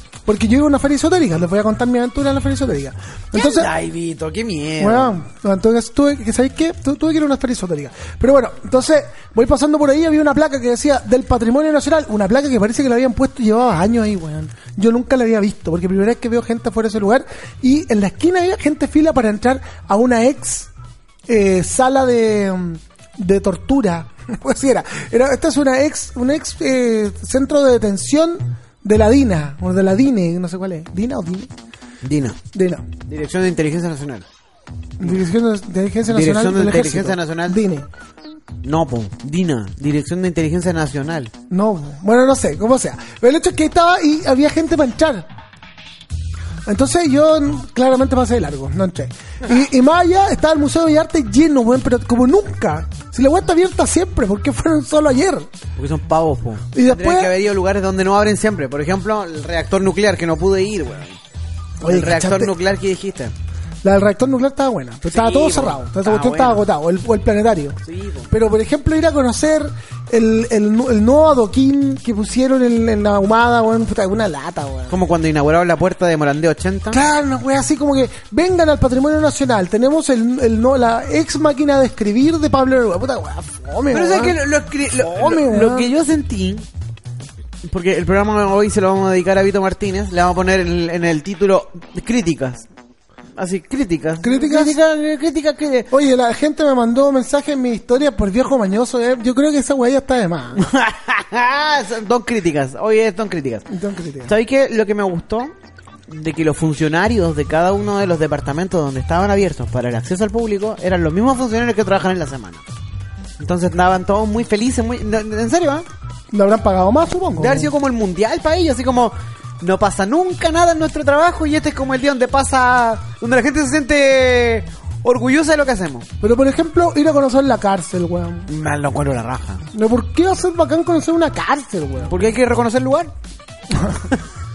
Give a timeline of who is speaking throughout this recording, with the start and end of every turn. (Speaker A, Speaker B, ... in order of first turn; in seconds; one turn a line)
Speaker A: 0.2-3.7
Speaker B: 3.3-5.2
Speaker A: 4.8-20.7
Speaker A: 21.3-31.5
Speaker B: 32.0-32.4
Speaker A: 32.5-32.9
Speaker B: 33.1-34.2
Speaker A: 35.0-37.9
Speaker B: 36.1-37.6
Speaker B: 38.6-41.3
Speaker A: 41.5-45.3
Speaker A: 46.7-55.5
Speaker B: 55.8-61.2
Speaker A: 56.8-57.3
Speaker A: 61.8-62.5
Speaker B: 61.8-63.3
Speaker A: 63.8-67.8
Speaker B: 65.1-66.7
Speaker B: 67.9-68.3
Speaker A: 68.3-75.0
Speaker B: 74.9-77.0
Speaker A: 76.9-84.4
Speaker B: 83.9-86.7
Speaker A: 84.9-85.9
Speaker B: 87.7-92.7
Speaker B: 93.3-95.9
Speaker A: 94.2-94.8
Speaker A: 95.9-100.6
Speaker B: 100.6-103.7
Speaker A: 103.7-104.3
Speaker B: 104.3-105.5
Speaker B: 106.1-112.6
Speaker B: 113.4-115.8
Speaker A: 116.3-117.7
Speaker B: 117.4-126.1
Speaker A: 126.2-128.5
Speaker B: 128.5-129.6
Speaker A: 129.7-132.2
Speaker B: 132.0-133.1
Speaker A: 133.7-134.0